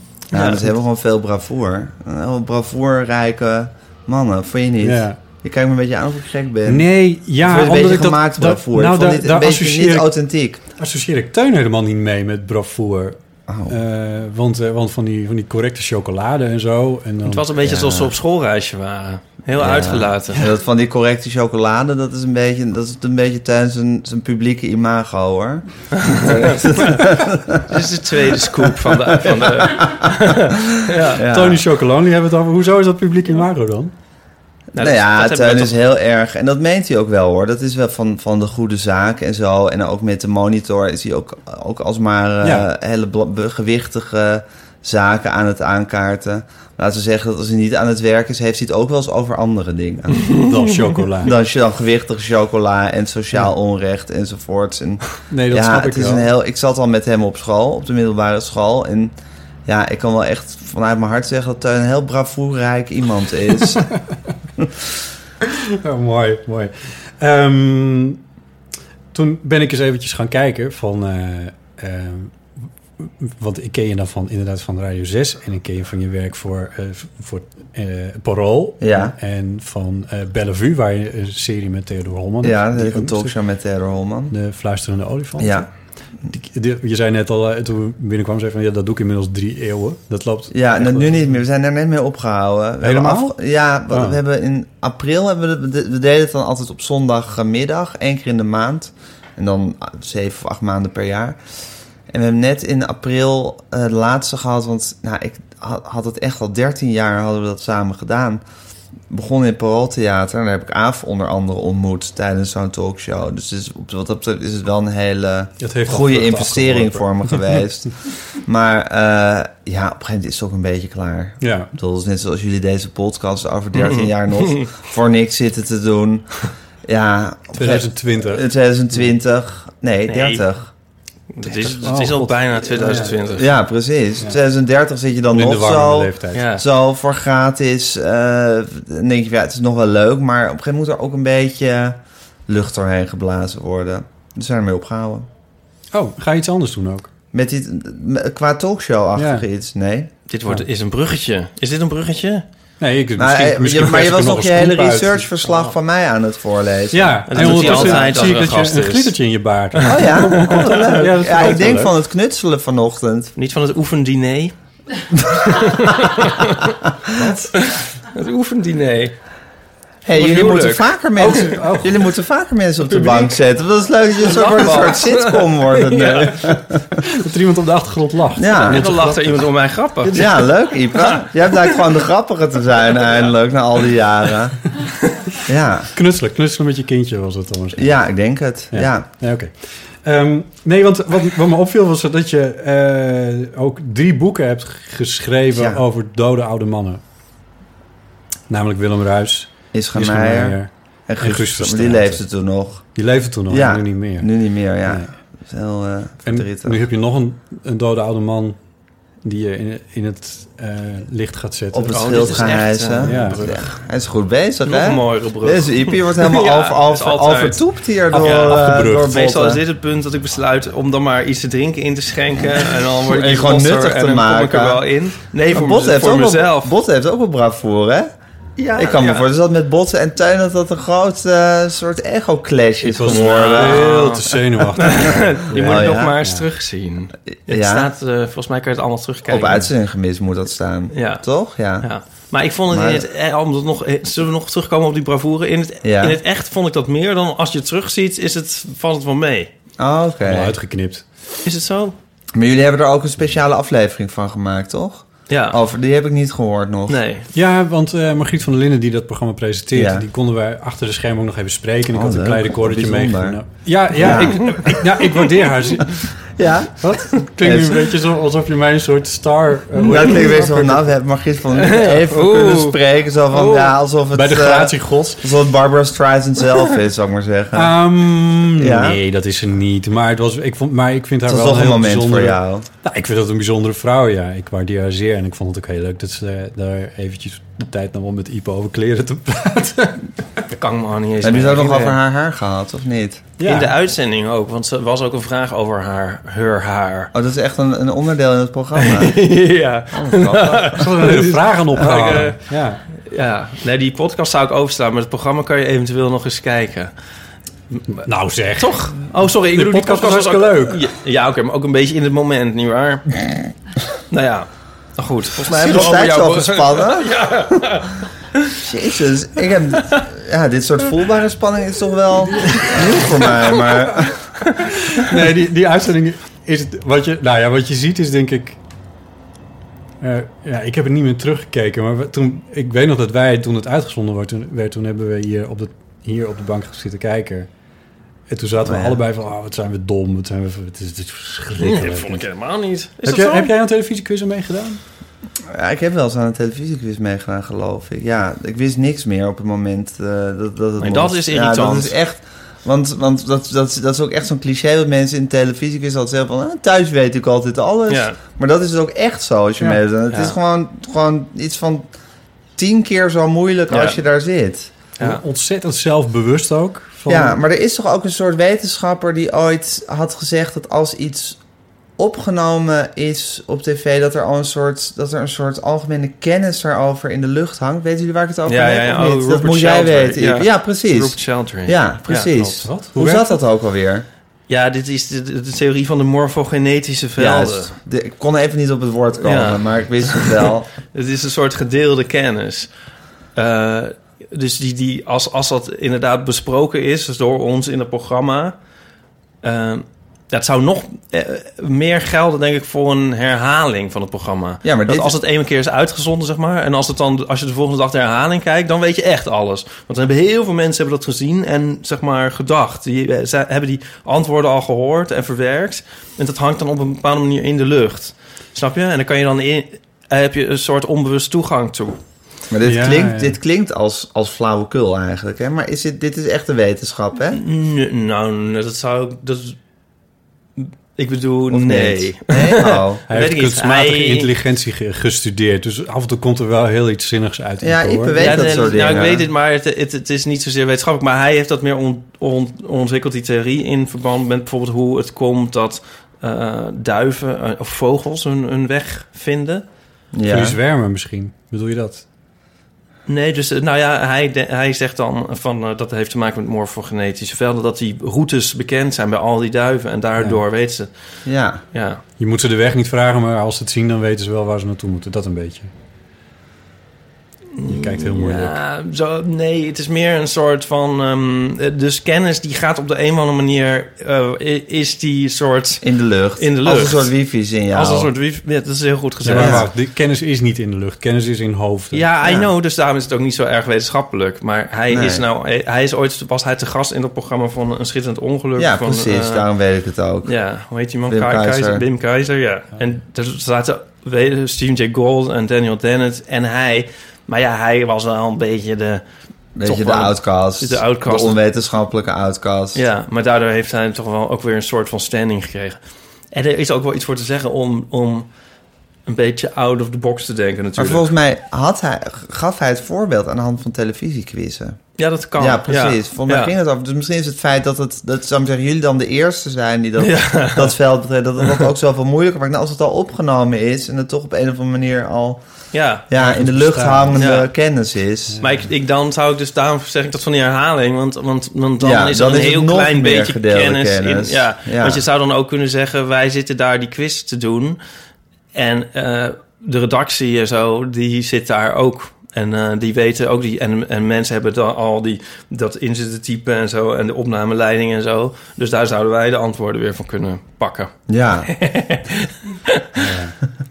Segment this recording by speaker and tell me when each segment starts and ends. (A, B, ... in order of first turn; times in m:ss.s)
0:00.3-0:00.7 A
0:00.3-0:10.6 B
0:04.8-0:05.2 C
0:06.7-0:10.2 C
0:10.8-0:17.5 C
0:13.5-0:13.8 B
0:17.3-0:20.5 A
0:17.6-0:18.1 B
0:19.5-0:27.8 B
0:26.0-0:27.0 A
0:27.7-0:31.2 A
0:28.4-0:31.6 B
0:31.2-0:33.9 C
0:34.7-0:50.4 B
0:34.8-0:35.8 A
0:42.4-0:42.7 C
0:50.2-0:50.5 A
0:50.3-0:51.4 C
0:51.2-0:59.1 B
0:55.3-0:56.3 C
0:59.7-1:03.9 B
1:05.5-1:08.2 C
1:09.1-1:12.4 C
1:13.0-1:23.3 C
1:18.8-1:19.2 B
1:22.4-1:24.4 B
1:24.3-1:25.7 C
1:25.4-1:25.7 B
1:26.3-1:31.3 C
1:30.5-1:41.4 B
1:32.8-1:33.4 C
1:33.9-1:34.2 C
1:42.1-1:48.4 B
1:49.1-2:10.7 B
1:55.6-1:57.5 C
2:01.4-2:01.7 C
2:03.7-2:04.7 A
2:07.5-2:08.4 C
2:10.1-2:10.5 A
2:11.4-2:13.6 A
2:11.5-2:13.1 C
2:13.3-2:25.3 B
2:15.3-2:16.4 C
2:16.3-2:16.6 A
2:25.9-2:27.1 C
2:27.3-2:30.1 B
2:29.2-2:29.5 C
2:30.3-2:32.4 A
2:32.8-2:35.3 C
2:33.2-2:38.4 B
2:35.5-2:35.7 A
2:36.9-2:42.0 C
2:37.3-2:39.2 A
2:39.8-2:40.9 A
2:39.8-2:43.3 B
2:43.4-2:44.5 A
2:45.2-2:46.8 A
2:45.3-2:46.1 B
2:47.1-2:47.5 B
2:47.2-2:47.5 C
2:47.6-2:49.2 A
2:50.0-2:57.0 B
2:50.1-2:51.5 A
2:51.2-2:51.9 C
2:52.9-2:53.4 A
2:54.2-2:56.4 A
2:57.0-2:59.4 C
2:58.4-2:59.2 B
2:58.7-3:01.8 A
3:00.1-3:04.6 B
3:05.5-3:05.9 B
3:05.9-3:08.0 C
3:07.8-3:09.1 B
3:08.7-3:17.0 C
3:15.5-3:15.8 B
3:18.5-3:22.2 C
3:19.7-3:22.8 B
3:23.0-3:24.3 C
3:23.5-3:26.8 B
3:26.3-3:28.6 C
3:29.2-3:33.4 C
3:31.7-3:39.6 B
3:31.9-3:33.7 A
3:34.6-3:37.6 A
3:38.1-3:39.1 C
3:38.1-3:46.8 A
3:42.9-3:44.8 B
3:45.5-3:48.1 B
3:48.6-3:49.3 A
3:48.8-3:54.2 B
3:52.8-3:56.4 C
3:53.1-3:59.7 A
3:55.6-3:56.2 B
3:57.5-3:57.9 B
3:59.3-4:01.9 B
4:00.9-4:01.2 A
4:01.8-4:09.5 A
4:02.7-4:03.1 B
4:05.8-4:06.2 B
4:09.8-4:10.6 B
4:10.2-4:11.0 C
4:11.4-4:12.0 A
4:12.4-4:17.0 B
4:15.3-4:15.6 A
4:16.9-4:17.3 A
4:17.3-4:26.0 C
4:19.7-4:20.1 B
4:21.9-4:23.4 B
4:23.9-4:24.7 B
4:24.2-4:24.6 A
4:26.4-4:27.9 B
4:26.8-4:30.9 C
4:29.8-4:37.8 B
4:31.5-4:32.8 A
4:33.3-4:33.7 A
4:34.1-4:35.3 C
4:37.6-4:50.0 C
4:38.6-4:39.0 B
4:41.3-4:42.7 B
4:50.5-4:52.0 A
4:51.2-4:53.3 B
4:53.4-4:53.7 C
4:53.4-4:57.1 A
4:57.1-4:59.2 B
4:58.8-5:02.4 A
4:59.9-5:00.8 B
5:00.7-5:02.8 C
5:03.0-5:06.9 A
5:07.9-5:10.8 C
5:08.6-5:13.2 A
5:14.1-5:18.6 A
5:15.5-5:17.1 B
5:18.6-5:24.2 B
5:22.5-5:23.8 A
5:24.4-5:24.7 A
5:24.9-5:28.6 C
5:30.0-5:37.5 C
5:38.3-5:42.2 C
5:38.6-5:39.0 B
5:41.6-5:43.5 A
5:43.0-5:44.8 C
5:45.5-6:01.9 B
5:50.8-5:52.0 A
5:57.9-5:58.2 A
6:00.1-6:00.4 A
6:02.6-6:04.7 B
6:03.7-6:04.0 A
6:05.0-6:07.4 C
6:07.1-6:11.4 B
6:12.0-6:24.1 B
6:18.5-6:22.6 A
6:22.6-6:23.4 C
6:24.5-6:27.7 A
6:27.2-6:30.7 B
6:29.2-6:32.7 A
6:33.4-6:38.6 A
6:39.4-7:02.0 A
6:44.6-6:45.2 B
7:02.5-7:07.4 B
7:02.6-7:03.4 C
7:07.3-7:09.6 A
7:10.6-7:14.3 A
7:11.5-7:13.0 B
7:13.1-7:18.5 C
7:17.6-7:19.3 B
7:18.2-7:29.6 A
7:30.1-7:30.6 B
7:30.3-7:32.0 C
7:33.1-7:40.9 A
7:41.3-7:41.6 B
7:41.7-7:42.0 A
7:42.2-7:45.7 C
7:47.6-7:55.8 A
7:47.6-7:48.6 C
7:55.8-7:58.1 B
7:56.4-7:57.1 A
7:57.7-7:59.6 A
7:59.2-8:02.0 C
7:59.3-7:59.7 B
8:01.9-8:09.5 A
8:02.2-8:02.5 B
8:04.9-8:05.2 B
8:08.6-8:10.3 B
8:10.2-8:19.0 A
8:11.1-8:11.8 B
8:19.6-8:22.8 B
8:19.6-8:21.4 A
8:22.8-8:25.8 A
8:26.3-8:28.3 A
8:29.1-8:31.1 A
8:30.8-8:34.8 B
8:35.0-8:36.5 A
8:35.4-8:45.4 B
8:40.0-8:40.8 A
8:45.7-8:46.0 A
8:46.1-8:48.4 B
8:46.2-8:47.2 C
8:47.2-8:47.5 A
8:48.3-8:48.6 C
8:48.4-8:57.8 A
8:51.8-8:55.0 B
8:58.5-9:10.9 A
9:11.1-9:11.5 B
9:11.5-9:13.1 A
9:13.0-9:13.4 C